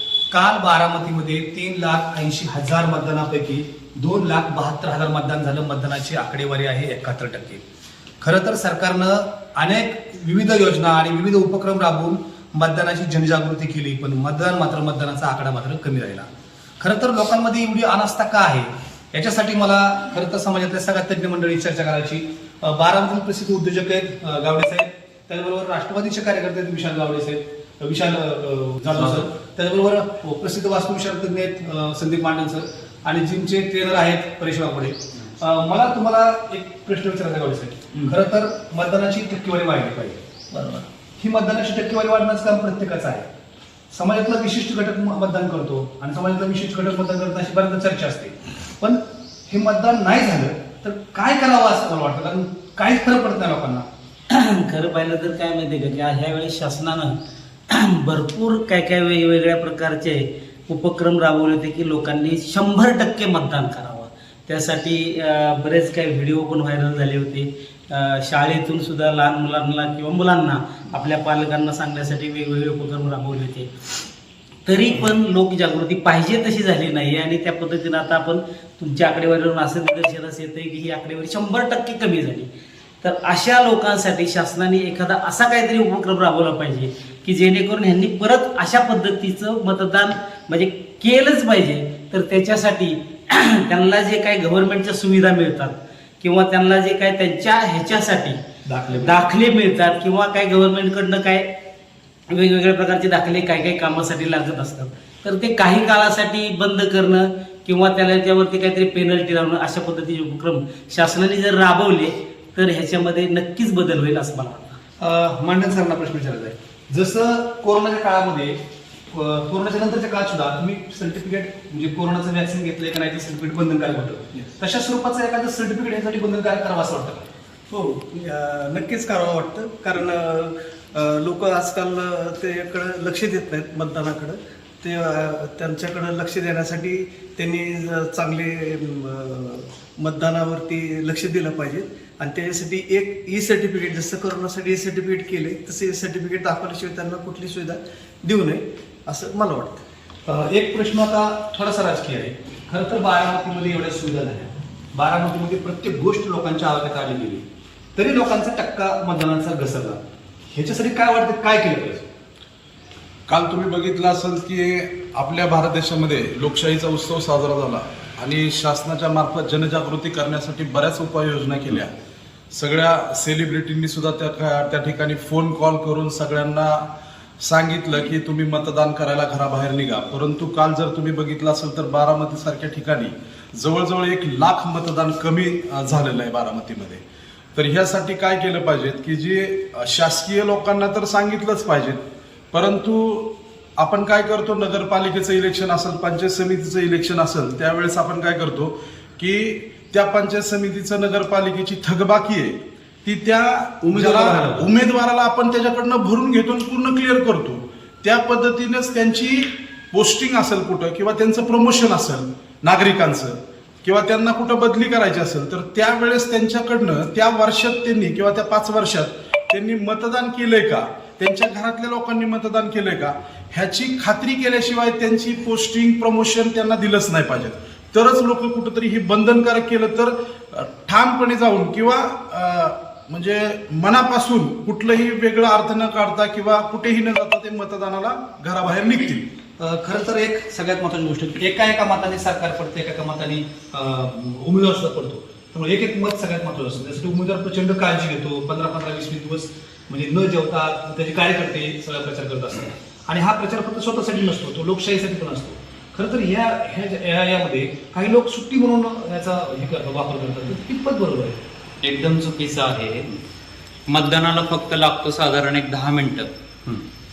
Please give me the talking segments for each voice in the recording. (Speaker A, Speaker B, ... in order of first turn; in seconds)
Speaker A: 0.3-7.6, 8.2-16.3, 16.8-40.2, 41.2-43.3, 43.9-53.9, 98.7-99.2, 115.0-118.6, 119.1-127.3, 150.2-162.1, 203.8-204.7, 239.6-261.4
Speaker B: 54.3-73.7, 74.7-82.5, 83.0-101.5, 102.3-114.8
Speaker C: 127.7-149.8
Speaker D: 163.3-171.9, 172.5-176.9, 177.4-187.0, 187.5-192.0, 192.5-239.3
Speaker E: 261.8-263.2, 263.9-266.3